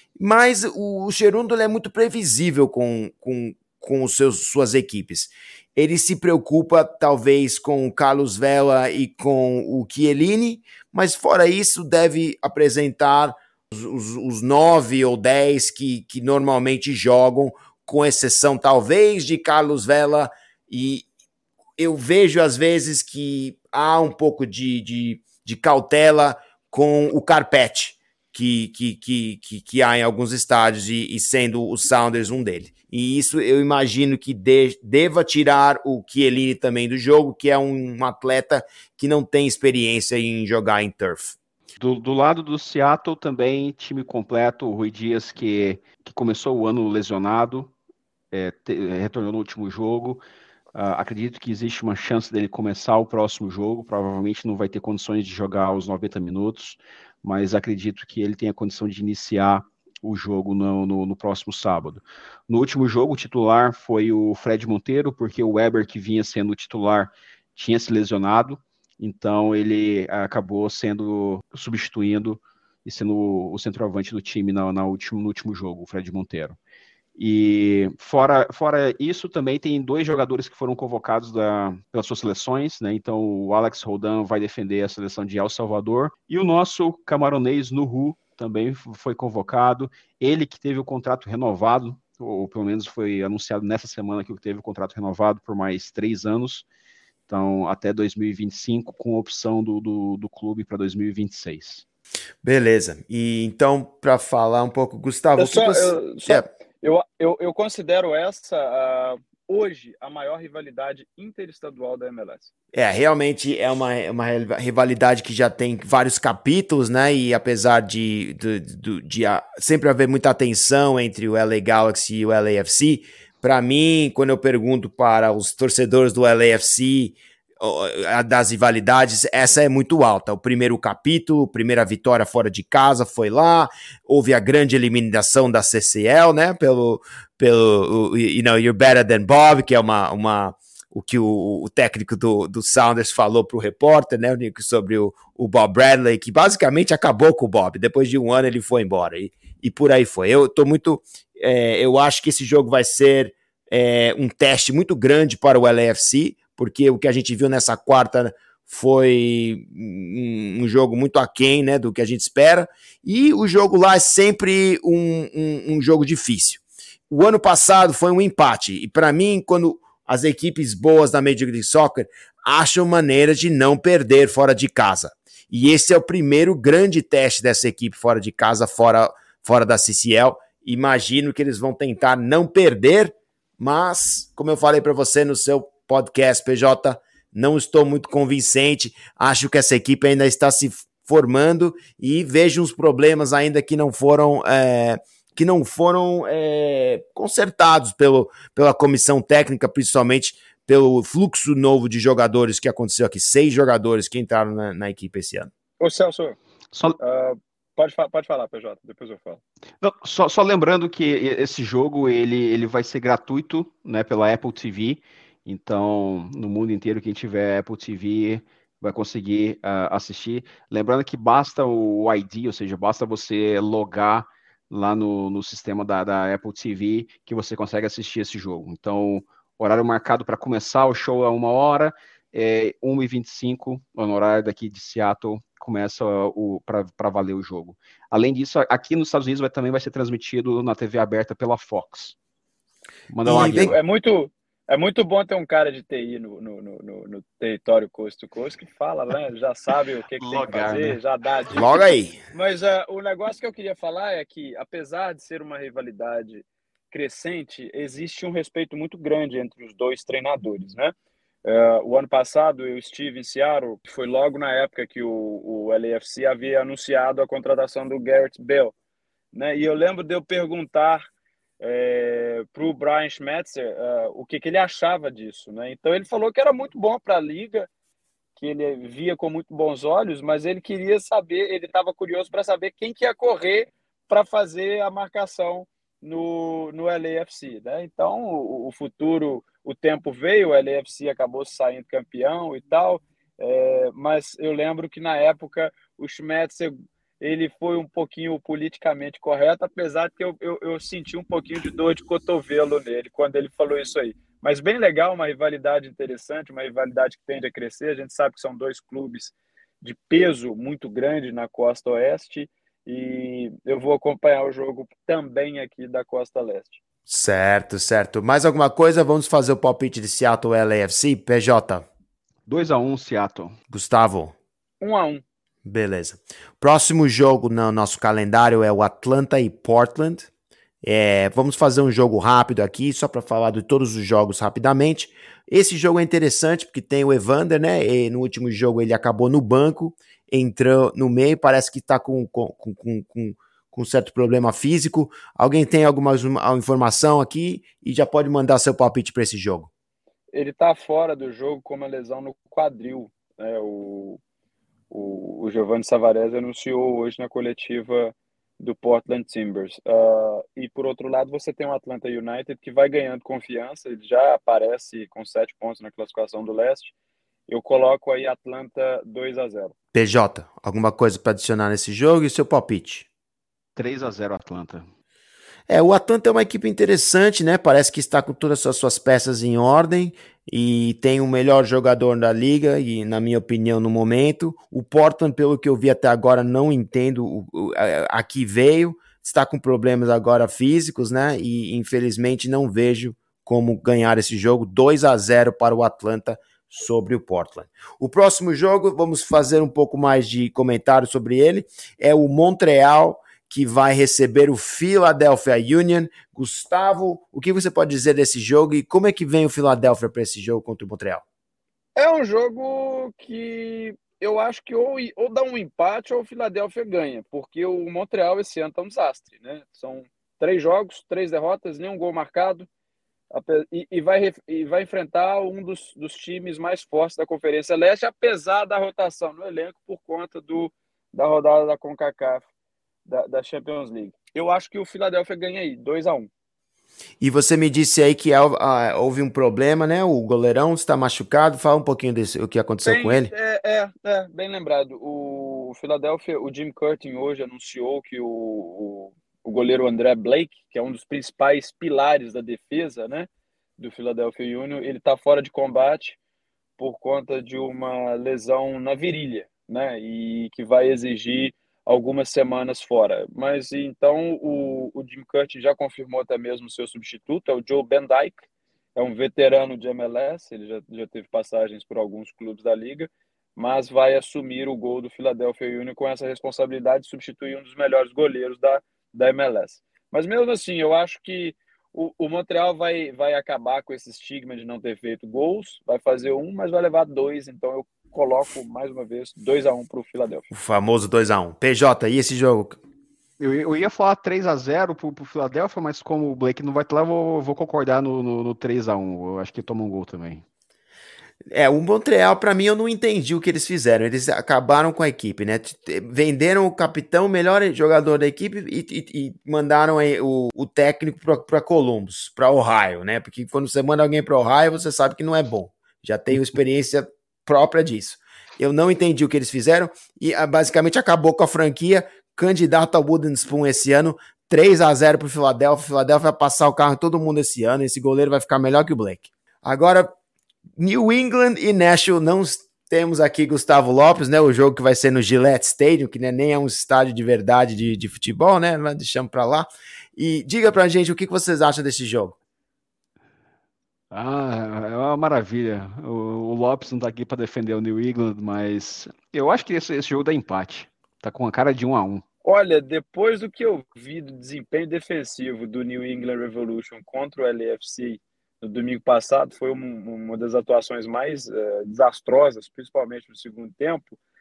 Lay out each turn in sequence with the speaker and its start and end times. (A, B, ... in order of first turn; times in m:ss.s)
0:00.2-0:21.1 A
0:21.8-0:41.4 A
0:41.8-0:47.7 B
0:48.3-0:50.2 B
0:50.7-1:16.6 B
1:17.2-1:36.6 B
1:37.3-1:41.8 B
1:42.4-1:46.5 A
1:45.4-1:52.5 C
1:52.7-3:25.5 A
3:25.8-3:26.4 C
3:26.7-3:27.0 B
3:27.0-3:29.4 C
3:29.8-4:02.2 B
4:03.1-4:03.8 B
4:03.2-4:03.8 A
4:03.4-4:20.9 C
4:10.2-4:11.0 B
4:11.5-4:12.2 A
4:21.4-4:28.7 C
4:29.3-4:31.0 C
4:31.6-4:37.7 C
4:38.4-5:16.8 C
5:17.1-5:21.9 A
5:22.5-5:23.5 B
5:23.7-5:24.4 A
5:24.8-5:25.2 C
5:25.6-5:30.3 A
5:30.8-5:49.7 A
5:50.3-5:54.2 C
5:54.9-6:06.9 C
6:07.5-6:09.7 C
6:09.9-6:13.1 A
6:13.8-6:14.8 B
6:15.7-6:51.2 A
6:52.0-7:02.7 C
7:03.3-7:12.5 C
7:13.1-7:16.3 C
7:17.2-7:23.3 A
7:22.8-7:36.2 C
7:36.8-7:48.4 C
7:49.0-8:10.5 C
8:10.5-8:12.8 A
8:13.4-8:20.4 B
8:21.5-8:50.1 A
8:50.8-9:02.4 A
9:04.1-9:12.2 B
9:12.4-9:24.2 C